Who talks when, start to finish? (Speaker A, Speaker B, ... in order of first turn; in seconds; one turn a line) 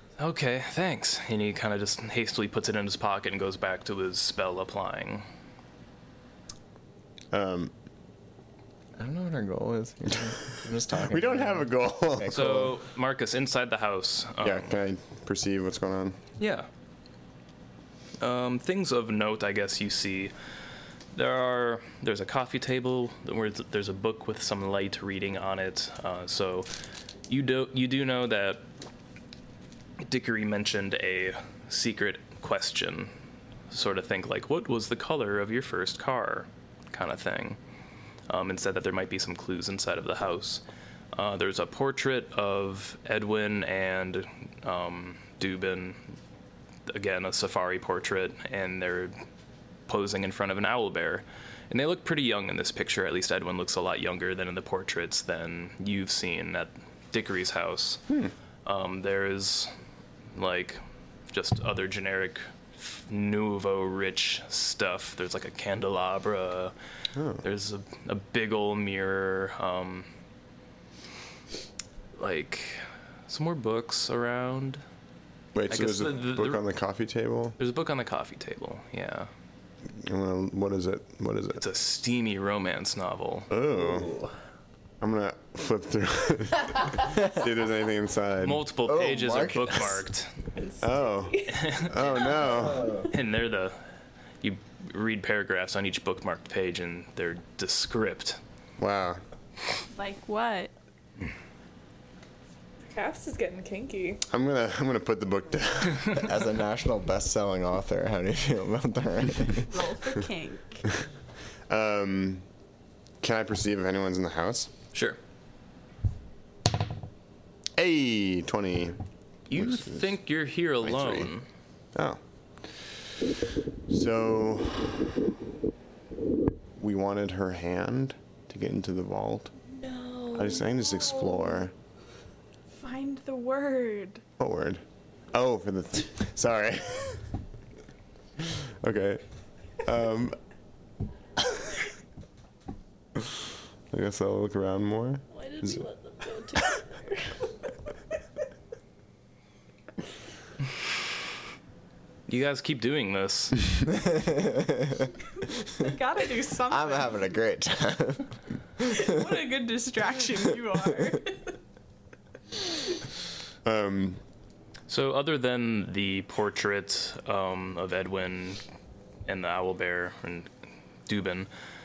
Speaker A: 0.2-5.2
Speaker B: 7.3-7.7
Speaker C: 9.0-12.7
Speaker B: 11.0-12.5
Speaker A: 12.3-14.7
Speaker B: 14.4-16.2
Speaker A: 16.4-16.7
Speaker A: 18.2-20.3
Speaker A: 21.1-26.7
Speaker A: 27.3-28.6
Speaker A: 30.0-33.1
Speaker A: 33.7-37.6
Speaker A: 38.3-40.6
Speaker A: 41.1-46.1
Speaker A: 46.9-49.1
Speaker A: 49.9-58.0
Speaker A: 58.6-59.7
Speaker A: 60.3-66.7
Speaker B: 67.1-67.4
Speaker A: 67.4-70.1
Speaker A: 72.2-74.8
Speaker B: 75.5-77.5
Speaker A: 75.7-76.6
Speaker A: 77.6-79.3
Speaker B: 80.0-81.6
Speaker A: 81.6-83.5
Speaker B: 83.5-84.1
Speaker C: 83.8-84.3
Speaker B: 85.0-88.6
Speaker A: 88.4-90.3
Speaker C: 88.8-90.0
Speaker B: 90.8-93.0
Speaker A: 91.5-92.2
Speaker C: 92.5-93.1
Speaker A: 93.0-93.8
Speaker A: 94.4-98.4
Speaker B: 98.8-99.2
Speaker D: 99.9-100.7
Speaker E: 102.9-104.2
Speaker B: 104.3-106.3
Speaker C: 106.2-109.7
Speaker D: 109.7-110.8
Speaker B: 111.7-112.4
Speaker B: 113.2-114.7
Speaker B: 117.8-119.0
Speaker A: 119.5-121.5
Speaker B: 119.5-120.1
Speaker B: 120.8-121.3
Speaker B: 121.9-123.1
Speaker B: 123.9-125.3
Speaker B: 126.8-129.5
Speaker D: 129.7-131.4
Speaker B: 130.3-131.7
Speaker D: 132.7-134.2
Speaker B: 134.4-137.2
Speaker B: 138.4-139.2
Speaker B: 139.8-140.4
Speaker B: 143.9-145.8
Speaker E: 145.6-146.4
Speaker A: 152.3-153.6
Speaker C: 153.9-155.1
Speaker D: 155.7-157.2
Speaker C: 156.7-159.0
Speaker D: 158.8-161.5
Speaker B: 163.6-164.2
Speaker A: 164.9-168.6
Speaker A: 169.2-170.5
Speaker A: 171.1-171.5